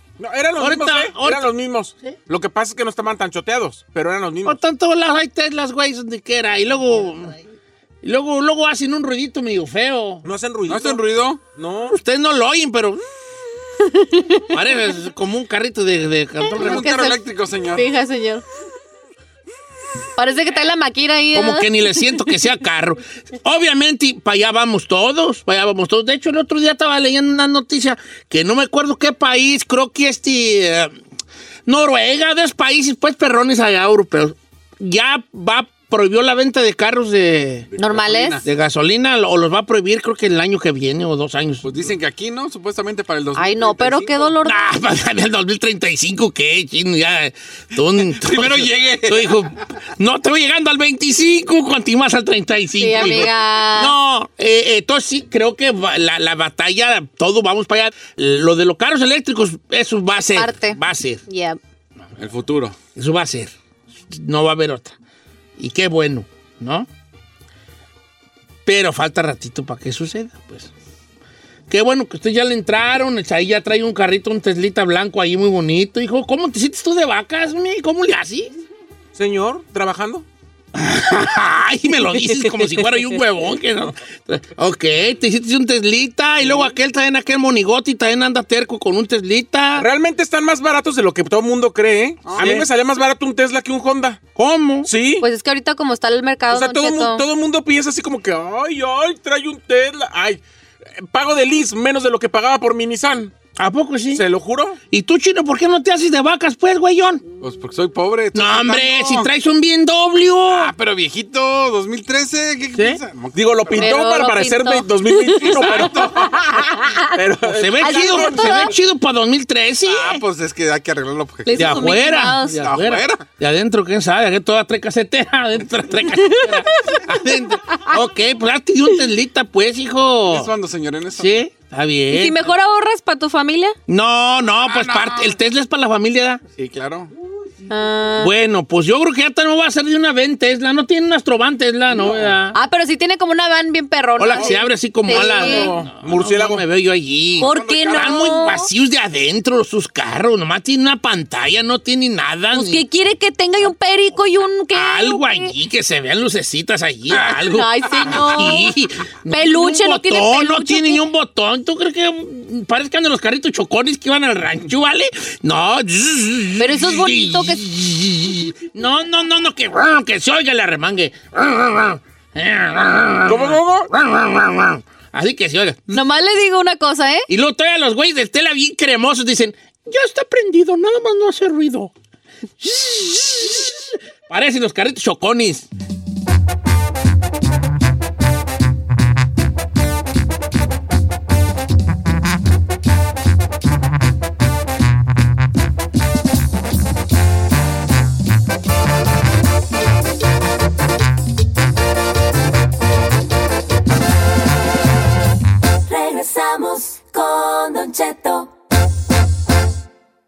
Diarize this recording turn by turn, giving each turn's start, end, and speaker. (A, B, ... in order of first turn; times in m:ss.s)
0:00.2-0:04.6 A
0:00.6-0:02.2 B
0:04.4-0:07.4 B
0:08.0-0:10.2 B
0:10.2-0:12.0 A
0:10.7-0:11.4 C
0:11.9-0:13.0 B
0:13.8-0:14.5 D
0:14.5-0:16.9 B
0:16.5-0:18.4 D
0:16.6-0:17.9 C
0:20.2-0:22.2 D
0:21.3-0:31.0 B
0:31.7-0:37.7 B
0:37.7-0:38.5 C
0:37.8-0:38.4 D
0:38.4-0:41.7 B
0:41.6-0:44.4 C
0:43.4-0:44.6 D
0:44.4-1:01.2 B
0:48.1-0:49.6 C
0:52.8-0:53.9 D
0:53.0-0:53.2 C
1:00.3-1:01.6 D
1:02.2-1:02.8 C
1:02.8-1:03.5 B
1:04.1-1:05.0 B
1:05.6-1:06.9 B
1:08.6-1:10.7 B
1:11.7-1:18.5 B
1:19.1-1:20.2 A
1:20.7-1:29.9 B
1:22.2-1:22.9 A
1:29.8-1:34.2 A
1:32.2-1:32.6 C
1:32.4-1:32.7 B
1:34.3-1:34.9 B
1:34.8-1:35.2 A
1:35.2-1:37.2 D
1:36.5-1:40.4 A
1:41.0-1:43.3 A
1:43.6-1:44.2 B
1:44.1-1:44.8 A
1:44.9-1:47.2 B
1:47.4-1:49.3 C
1:48.3-1:50.7 B
1:50.5-1:54.0 C
1:52.7-1:53.0 B
1:53.3-1:56.6 A
1:53.7-1:57.0 D
1:55.4-1:56.4 C
1:57.1-1:58.7 A
1:57.4-2:00.2 B
1:57.8-1:58.7 D
1:59.9-2:01.8 C
2:01.4-2:02.6 D
2:01.6-2:10.5 B
2:02.5-2:03.2 C
2:06.3-2:07.0 D
2:10.3-2:11.5 C
2:11.1-2:12.5 B
2:12.1-2:13.8 D
2:13.9-2:16.4 B
2:14.6-2:15.4 C
2:16.6-2:17.1 C
2:17.7-2:18.3 D
2:18.2-2:22.6 B
2:21.9-2:22.3 C
2:22.5-2:25.7 D
2:24.2-2:32.8 B
2:25.2-2:26.7 A
2:27.4-2:28.4 C
2:27.4-2:28.7 D
2:32.5-2:35.5 D
2:34.7-2:55.9 B
2:37.5-2:38.7 D
2:37.9-2:38.3 C
2:39.3-2:41.0 D
2:46.6-2:47.6 D
2:53.3-2:53.9 A
2:55.9-2:57.3 D
2:57.3-3:01.9 B
3:02.6-3:05.7 B
3:25.8-3:28.5 E